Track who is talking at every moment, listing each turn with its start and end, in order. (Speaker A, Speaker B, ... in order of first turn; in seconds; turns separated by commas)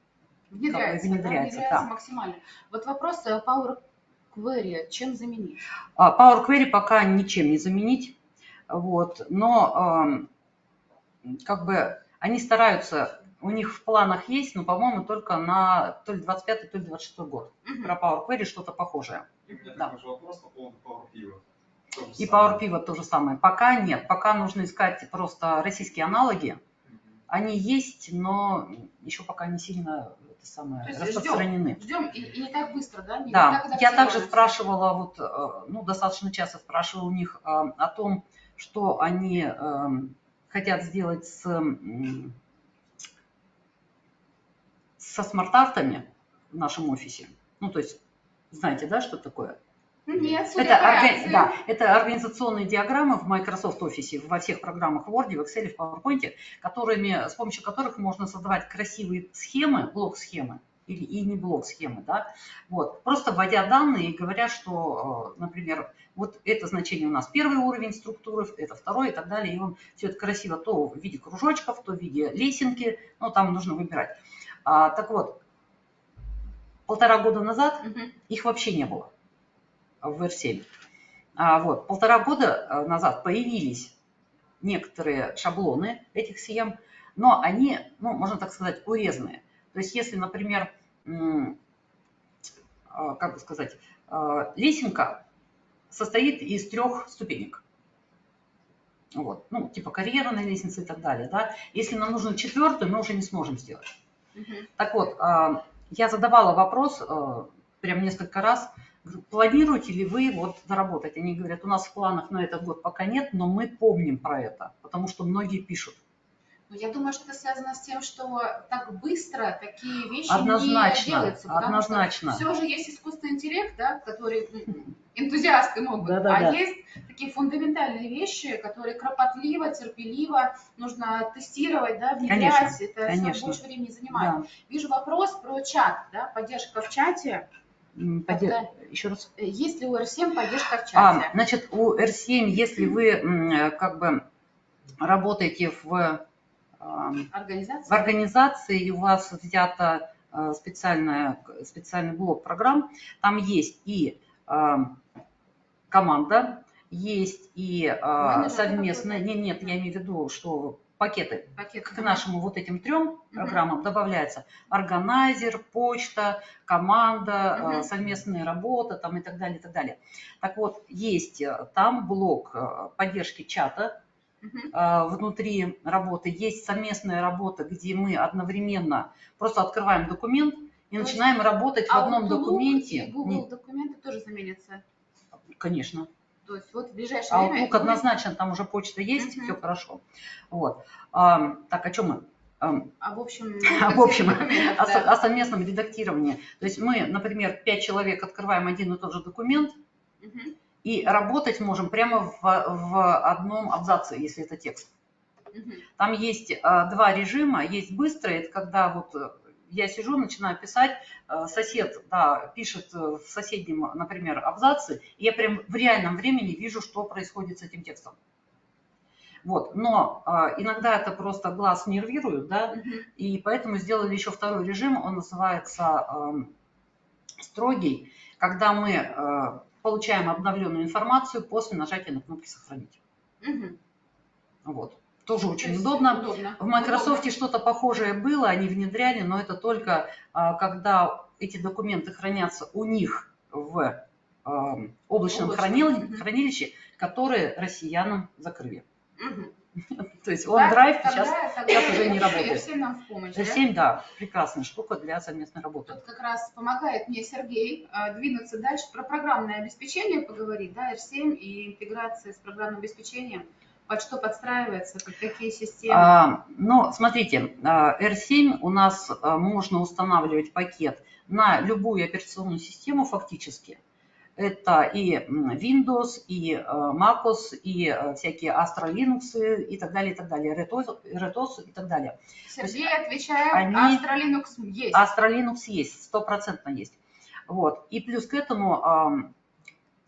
Speaker A: 0.5-5.7, Speaker B: 0.7-1.9, Speaker B: 6.0-8.2, Speaker B: 8.7-10.3, Speaker B: 11.2-19.9, Speaker A: 17.6-17.9, Speaker C: 19.5-22.6, Speaker B: 22.1-26.6, Speaker B: 27.3-31.8, Speaker A: 30.8-34.5, Speaker B: 33.3-42.4, Speaker B: 45.0-48.0, Speaker B: 48.5-49.6, Speaker A: 50.1-51.6, Speaker B: 50.5-75.4, Speaker B: 76.9-79.1, Speaker A: 77.8-78.1, Speaker B: 80.0-80.7, Speaker B: 81.4-83.9, Speaker B: 84.6-91.6, Speaker B: 92.9-95.2, Speaker B: 95.9-97.6, Speaker B: 99.1-103.9, Speaker A: 104.3-104.7, Speaker B: 104.8-116.0, Speaker A: 116.7-137.4, Speaker B: 120.3-122.4, Speaker B: 126.0-126.6, Speaker B: 132.2-134.5, Speaker B: 137.9-139.3, Speaker A: 138.3-138.7, Speaker A: 139.4-141.3, Speaker B: 140.9-144.2, Speaker B: 145.0-146.2, Speaker B: 146.8-147.3, Speaker A: 147.3-148.1, Speaker B: 147.9-155.0, Speaker B: 155.9-174.0, Speaker A: 158.2-159.7, Speaker A: 161.6-162.2, Speaker A: 163.3-163.6, Speaker A: 167.5-167.9, Speaker A: 174.4-174.7, Speaker B: 174.7-183.4, Speaker A: 181.0-181.3, Speaker A: 181.9-184.8, Speaker B: 185.5-186.1, Speaker A: 186.4-188.0, Speaker B: 187.3-192.9, Speaker A: 189.2-189.6, Speaker A: 193.0-195.1, Speaker B: 193.6-199.8, Speaker A: 200.2-200.5, Speaker B: 200.8-204.9, Speaker A: 205.5-205.8, Speaker B: 206.0-218.1, Speaker B: 219.4-226.5, Speaker A: 222.7-223.1, Speaker B: 227.4-233.0, Speaker A: 233.4-233.8, Speaker B: 234.6-248.8, Speaker A: 235.6-237.3, Speaker A: 245.3-246.2, Speaker A: 249.2-249.5, Speaker B: 249.9-252.6, Speaker A: 250.5-253.6, Speaker B: 253.3-256.0, Speaker A: 255.9-266.1, Speaker B: 265.9-273.8, Speaker B: 274.4-282.9, Speaker A: 282.5-285.1, Speaker B: 283.5-284.1, Speaker B: 284.9-287.0, Speaker B: 287.5-289.3